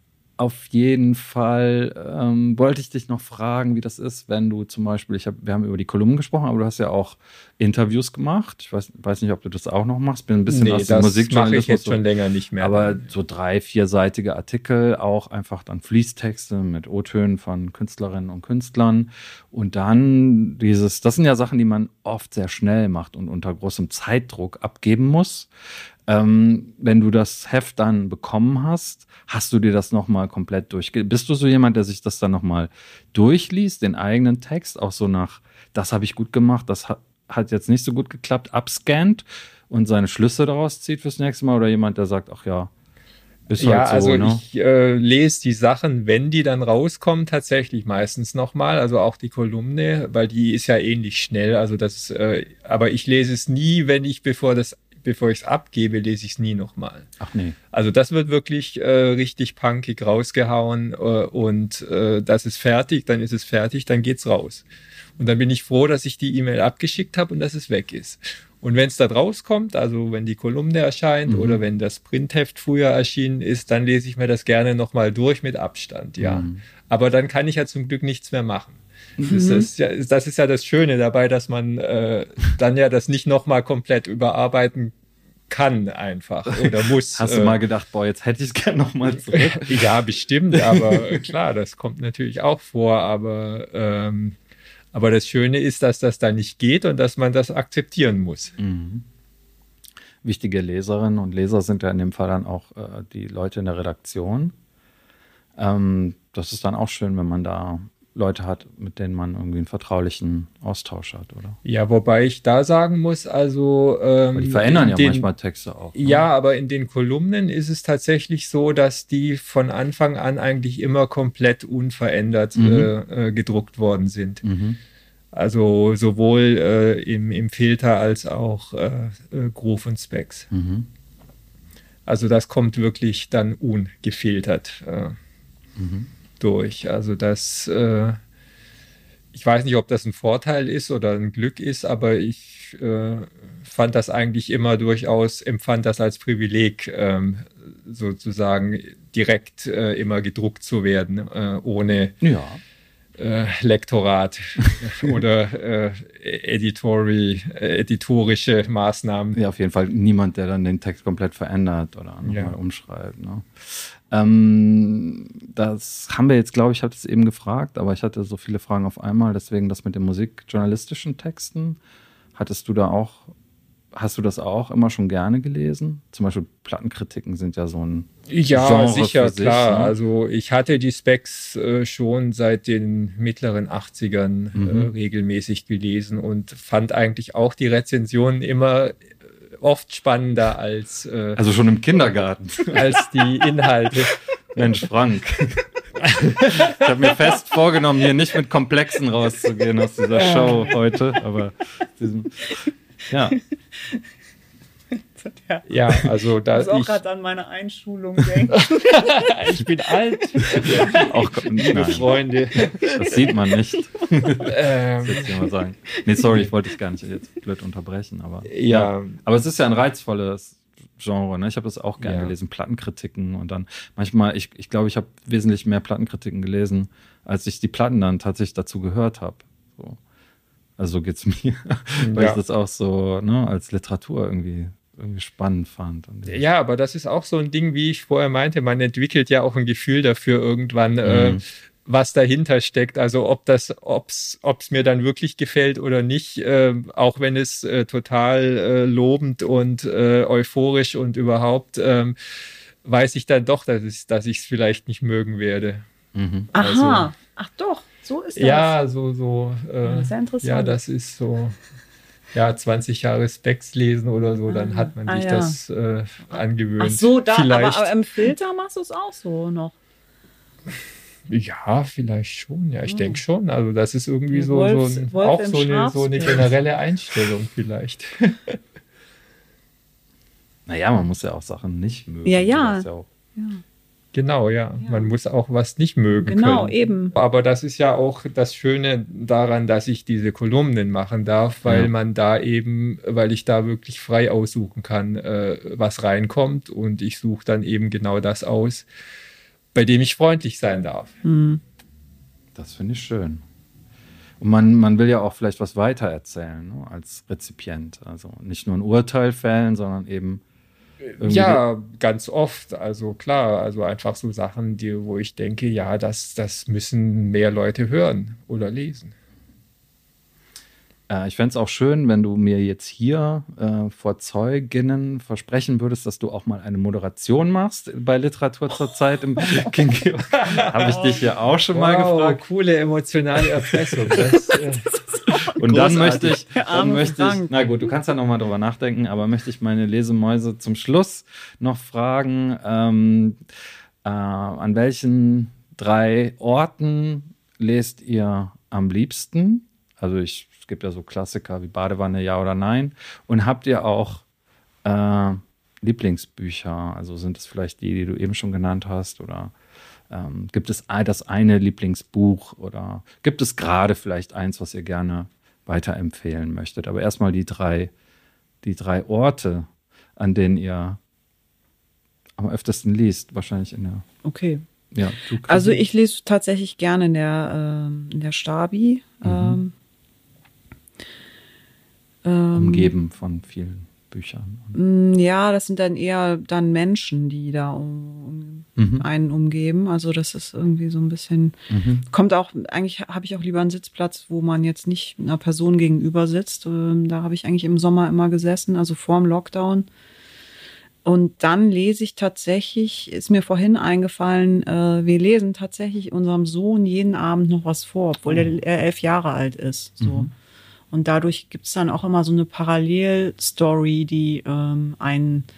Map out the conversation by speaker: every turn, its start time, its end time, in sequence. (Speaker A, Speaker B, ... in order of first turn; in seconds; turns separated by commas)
Speaker A: 0.4-12.0, Speaker B: 10.5-13.1, Speaker A: 12.6-25.5, Speaker A: 26.1-42.7, Speaker A: 43.5-44.4, Speaker B: 43.6-57.1, Speaker A: 57.2-57.5, Speaker B: 57.7-64.6, Speaker B: 65.2-84.9, Speaker A: 71.3-71.6, Speaker A: 76.2-76.6, Speaker C: 79.3-79.7, Speaker B: 85.5-87.6, Speaker A: 86.5-90.0, Speaker B: 89.3-94.3, Speaker A: 90.5-91.3, Speaker B: 94.9-98.5, Speaker A: 98.6-99.0, Speaker A: 100.2-104.5, Speaker A: 105.5-111.6, Speaker B: 111.6-115.3, Speaker A: 114.3-116.3, Speaker B: 115.9-124.4, Speaker A: 122.5-122.9, Speaker A: 124.4-124.8, Speaker B: 125.3-130.5, Speaker A: 130.5-130.9, Speaker B: 132.1-135.2, Speaker A: 135.8-136.1, Speaker B: 136.4-138.2, Speaker B: 139.3-152.2, Speaker A: 152.2-152.6, Speaker B: 153.2-159.4, Speaker A: 159.3-171.8, Speaker B: 162.2-162.6, Speaker A: 172.3-173.3, Speaker A: 173.9-179.9, Speaker B: 178.3-191.4, Speaker A: 184.5-184.9, Speaker A: 191.4-193.3, Speaker B: 192.7-194.2, Speaker A: 194.5-203.4, Speaker B: 196.1-196.9, Speaker B: 200.1-200.8, Speaker C: 203.3-204.0, Speaker C: 204.9-209.1, Speaker B: 205.7-207.0, Speaker B: 208.6-213.1, Speaker C: 210.4-211.1, Speaker A: 210.6-212.1, Speaker C: 211.7-212.0, Speaker C: 212.6-212.8, Speaker A: 212.8-230.0, Speaker C: 213.8-214.4, Speaker B: 214.4-215.5, Speaker B: 218.5-219.2, Speaker B: 222.0-222.3, Speaker A: 230.8-236.4, Speaker B: 232.0-232.4, Speaker B: 236.3-252.2, Speaker A: 241.0-241.4, Speaker B: 252.8-255.8, Speaker A: 256.1-256.5, Speaker B: 256.5-257.1, Speaker C: 256.5-258.7, Speaker B: 258.4-261.6, Speaker C: 259.8-260.8, Speaker B: 262.3-267.9, Speaker C: 264.5-265.6, Speaker C: 266.8-269.8, Speaker B: 271.3-278.6, Speaker C: 272.9-273.2, Speaker C: 274.3-276.5, Speaker A: 280.6-283.1, Speaker C: 282.2-283.6, Speaker B: 284.1-298.9, Speaker C: 284.8-285.1, Speaker C: 286.2-287.1, Speaker A: 291.6-291.9, Speaker B: 299.7-301.1, Speaker C: 301.2-301.6, Speaker A: 302.5-303.4, Speaker A: 304.4-310.4, Speaker B: 311.2-319.1, Speaker A: 311.2-311.6, Speaker A: 321.1-332.4, Speaker B: 330.4-330.7, Speaker C: 330.5-331.2, Speaker B: 331.7-334.9, Speaker A: 333.7-334.2, Speaker C: 334.5-337.5, Speaker A: 335.6-343.4, Speaker A: 344.0-354.2, Speaker A: 354.8-359.5, Speaker A: 360.1-367.9, Speaker A: 368.6-371.0, Speaker A: 372.4-374.0, Speaker C: 374.2-374.6, Speaker A: 374.9-375.8, Speaker C: 375.4-379.7, Speaker A: 379.2-379.6, Speaker C: 382.2-382.9, Speaker A: 382.5-384.7, Speaker C: 384.7-399.9, Speaker A: 388.8-389.0, Speaker A: 391.7-392.0, Speaker C: 401.0-410.3, Speaker A: 410.0-410.3, Speaker C: 410.9-415.5